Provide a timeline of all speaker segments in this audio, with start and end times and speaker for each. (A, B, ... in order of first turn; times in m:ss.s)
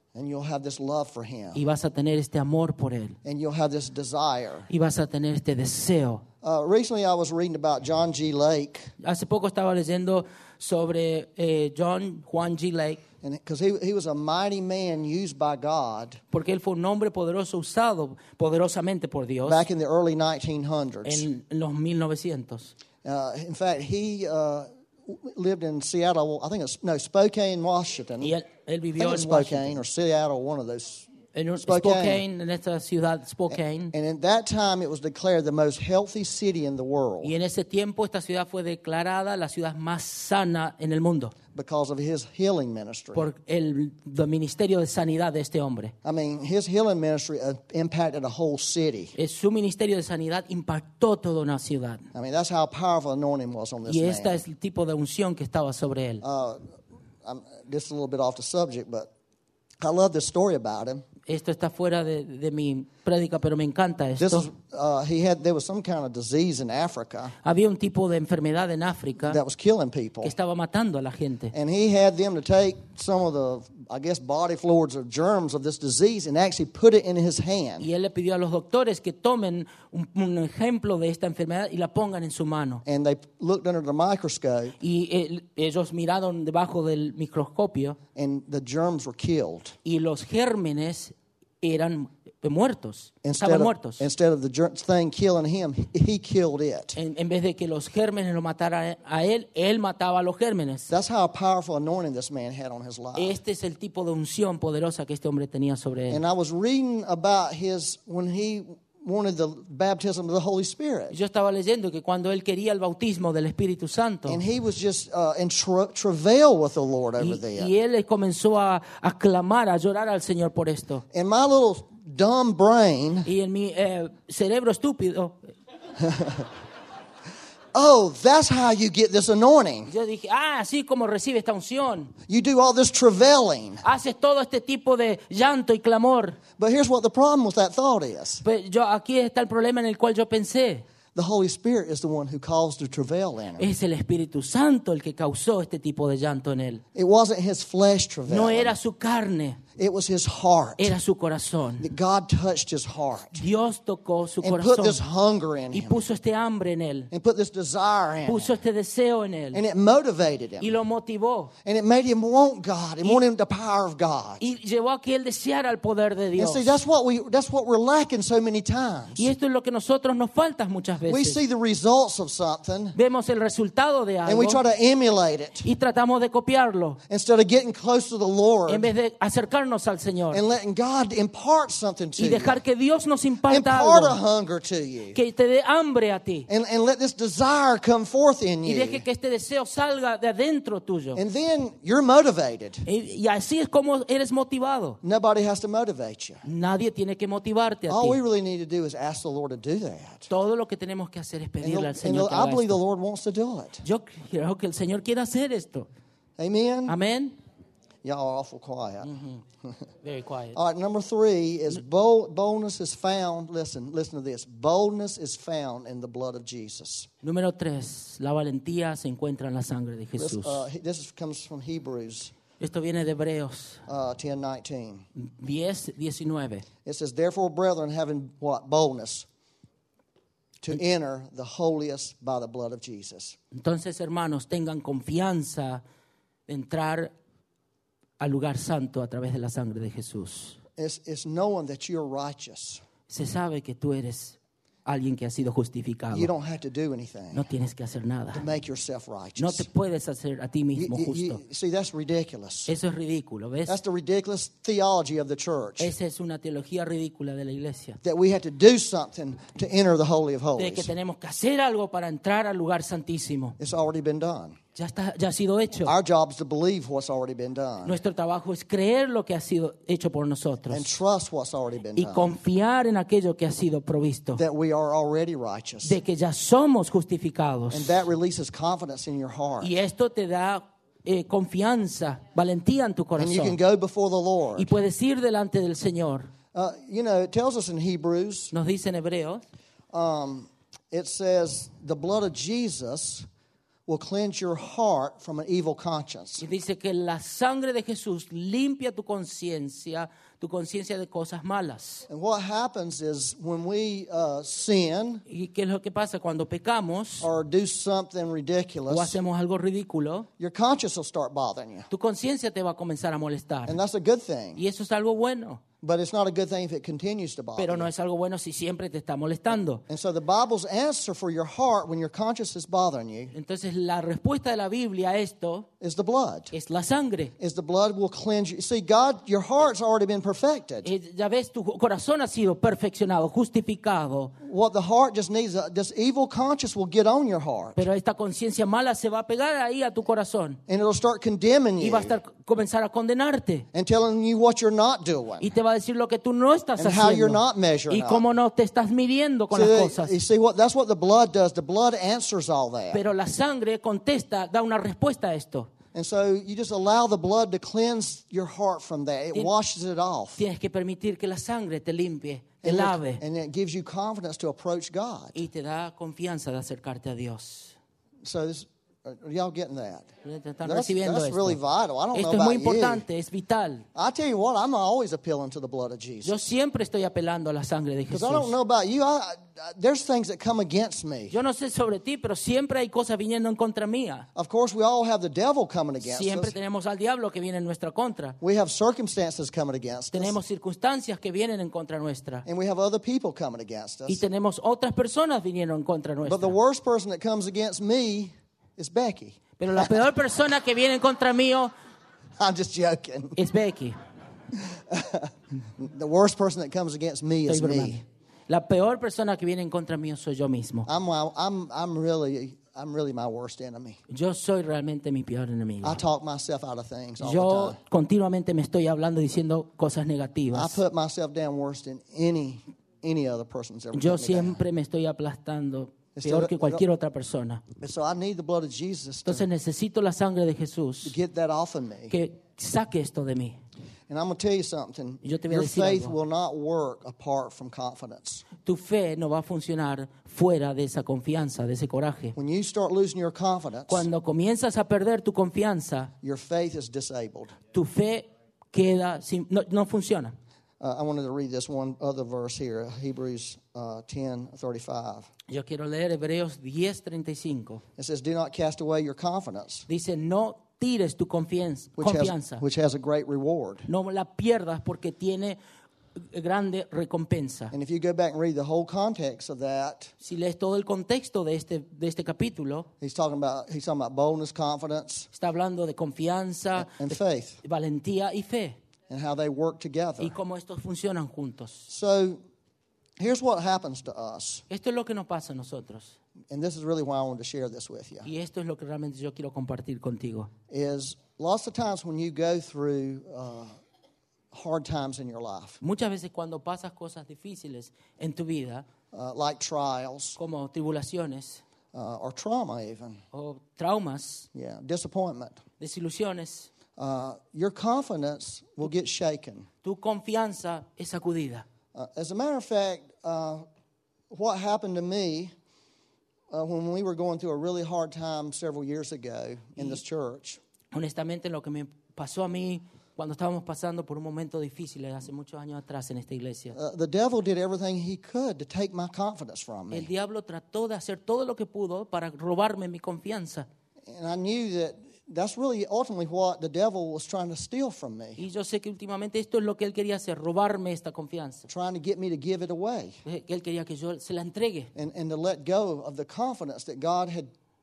0:00.1-0:01.6 A
0:01.5-0:03.2 B
0:03.2-0:04.7 A
0:04.7-0:06.2 B
0:06.4-0:08.9 A
0:09.0-0:13.0 B
0:13.2-0:16.2 A
0:16.3-0:19.6 B
0:19.4-0:21.2 A
0:21.0-0:22.7 B
0:23.0-0:28.3 A
0:28.2-0:29.8 B
0:29.0-0:31.1 A
0:31.3-0:33.9 B
0:31.6-0:32.2 A
0:33.9-0:37.3 A
0:37.2-0:41.3 B
0:41.5-0:43.3 A
0:43.1-0:45.9 B
0:46.0-0:49.1 A
0:49.2-0:52.1 B
0:52.1-0:54.4 A
0:53.9-0:56.2 B
0:56.2-0:59.1 A
0:59.8-1:01.0 A
1:01.2-1:04.5 B
1:04.2-1:07.3 A
1:07.4-1:09.4 B
1:09.2-1:10.3 A
1:10.2-1:11.5 B
1:11.5-1:17.9 A
1:17.8-1:22.8 B
1:22.8-1:24.8 A
1:24.8-1:28.0 B
1:28.1-1:29.8 A
1:29.8-1:34.0 B
1:33.2-1:37.0 A
1:37.0-1:40.9 B
1:40.9-1:43.4 A
1:43.2-1:46.2 B
1:46.1-1:51.2 A
1:51.1-1:54.4 B
1:54.3-1:57.7 A
1:57.2-2:01.0 B
2:01.1-2:03.3 A
2:03.2-2:05.5 B
2:06.0-2:06.5 A
2:07.7-2:09.9 A
2:09.9-2:12.1 B
2:12.3-2:13.8 A
2:13.8-2:16.4 B
2:16.6-2:18.4 A
2:18.4-2:20.8 B
2:21.1-2:23.7 A
2:23.6-2:26.8 B
2:26.9-2:28.8 A
2:28.3-2:29.6 B
2:29.8-2:30.9 A
2:30.8-2:31.9 B
2:31.8-2:33.4 A
2:33.4-2:35.0 B
2:34.4-2:36.0 A
2:35.7-2:37.1 B
2:37.1-2:38.5 A
2:38.2-2:39.6 B
2:39.5-2:40.7 A
2:40.6-2:41.5 B
2:41.6-2:44.4 A
2:44.4-2:46.8 B
2:46.4-2:49.3 A
2:49.2-2:51.4 B
2:51.1-2:53.0 A
2:52.9-2:54.6 B
2:54.2-2:55.7 A
2:55.6-2:57.0 B
2:57.1-2:58.9 A
2:58.7-3:00.4 B
3:00.3-3:02.6 A
3:02.2-3:04.2 B
3:03.5-3:05.2 A
3:05.1-3:06.5 B
3:06.5-3:09.0 A
3:08.6-3:11.2 B
3:11.1-3:12.8 A
3:12.8-3:15.0 B
3:15.0-3:16.4 A
3:16.4-3:18.2 B
3:17.9-3:20.3 A
3:20.3-3:22.8 B
3:21.6-3:23.8 A
3:23.8-3:25.9 B
3:26.4-3:27.0 A
3:26.9-3:27.4 B
3:28.0-3:29.1 A
3:29.0-3:29.4 B
3:30.0-3:30.6 B
3:30.5-3:37.1 A
3:37.2-3:40.6 B
3:40.2-3:42.3 A
3:42.6-3:43.8 B
3:43.9-3:45.1 A
3:45.2-3:46.6 B
3:46.8-3:49.3 A
3:50.6-3:53.4 A
3:53.5-3:55.8 B
3:56.5-3:57.1 B
3:58.2-4:00.6 B
4:00.8-4:02.8 A
4:03.1-4:06.3 B
4:06.1-4:07.5 A
4:07.3-4:08.4 B
4:08.3-4:09.7 A
4:09.4-4:11.4 B
4:10.7-4:12.7 A
4:12.7-4:13.8 B
4:13.6-4:15.9 A
4:15.8-4:18.0 B
4:18.0-4:20.9 A
4:20.6-4:23.6 B
4:23.6-4:24.6 A
4:24.7-4:25.9 B
4:25.8-4:28.0 A
4:27.8-4:30.9 B
4:30.7-4:32.3 A
4:31.9-4:34.4 B
4:34.3-4:36.0 A
4:35.8-4:38.0 B
4:37.7-4:39.7 A
4:39.6-4:43.6 B
4:43.2-4:44.7 A
4:44.6-4:46.3 B
4:46.5-4:48.5 A
4:48.5-4:49.4 B
4:49.9-4:53.3 A
4:53.9-4:56.4 A
4:56.4-5:02.0 B
5:02.1-5:05.2 A
5:05.3-5:07.3 B
5:07.2-5:09.2 A
5:08.9-5:10.3 B
5:10.4-5:11.9 A
5:11.9-5:13.8 B
5:13.6-5:14.6 A
5:14.6-5:15.6 B
5:15.8-5:17.9 A
5:17.6-5:19.8 B
5:19.9-5:23.3 A
5:23.3-5:25.7 B
5:25.8-5:26.5 A
5:26.5-5:27.3 B
5:27.4-5:30.9 A
5:30.8-5:34.4 B
5:34.4-5:37.8 A
5:37.8-5:40.6 B
5:40.7-5:42.2 A
5:41.8-5:43.7 B
5:43.7-5:45.5 A
5:45.4-5:50.1 B
5:46.8-5:48.2 A
5:49.5-5:53.0 A
5:52.9-5:55.7 B
5:55.9-6:00.4 A
6:00.4-6:03.2 B
6:02.6-6:05.4 A
6:05.3-6:07.8 B
6:08.2-6:10.1 A
6:10.2-6:11.6 B
6:10.6-6:13.0 A
6:12.1-6:13.8 B
6:13.9-6:16.4 A
6:16.2-6:18.5 B
6:18.1-6:21.4 A
6:21.3-6:24.3 B
6:24.3-6:26.5 A
6:26.0-6:28.4 B
6:28.4-6:30.4 A
6:30.1-6:32.4 B
6:32.4-6:34.2 A
6:34.1-6:36.6 B
6:36.2-6:39.4 A
6:39.6-6:41.7 B
6:42.4-6:43.4 A
6:43.4-6:44.0 B
6:44.5-6:48.0 A
6:47.5-6:50.9 B
6:50.8-6:54.0 A
6:54.1-6:56.0 B
6:55.8-6:57.8 A
6:57.2-7:00.8 B
7:00.5-7:04.6 A
7:03.9-7:07.6 B
7:06.1-7:06.8 A
7:07.8-7:09.4 A
7:09.2-7:11.2 B
7:11.0-7:12.1 A
7:12.1-7:13.6 B
7:14.1-7:18.4 A
7:15.2-7:16.2 B
7:18.6-7:22.4 B
7:22.3-7:24.0 A
7:23.9-7:26.1 B
7:26.2-7:27.6 A
7:27.7-7:30.4 B
7:30.8-7:35.3 A
7:35.5-7:37.8 B
7:38.0-7:39.8 A
7:39.9-7:42.6 B
7:42.0-7:43.9 A
7:43.9-7:45.6 B
7:46.1-7:47.7 B
7:47.7-7:50.1 A
7:50.2-7:52.9 B
7:53.0-7:55.3 A
7:55.3-7:58.8 B
7:56.8-7:57.6 A
7:59.1-8:00.3 A
8:00.2-8:01.9 B
8:01.9-8:02.4 A
8:03.2-8:04.6 A
8:04.7-8:06.2 B
8:06.5-8:08.3 A
8:08.2-8:10.5 B
8:10.7-8:13.8 A
8:14.5-8:15.8 A
8:15.8-8:18.8 B
8:19.1-8:20.4 A
8:20.4-8:21.6 B
8:21.9-8:23.2 A
8:23.3-8:24.5 B
8:24.5-8:25.6 A
8:25.8-8:26.7 B
8:27.0-8:29.7 A
8:29.8-8:31.6 B
8:31.9-8:33.6 A
8:34.3-8:35.5 A
8:36.5-8:40.6 A
8:40.9-8:46.8 B
8:46.7-8:50.1 A
8:49.9-8:53.7 B
8:54.1-8:58.4 A
8:58.4-9:01.6 B
9:01.7-9:03.2 A
9:03.2-9:04.9 B
9:04.9-9:07.5 A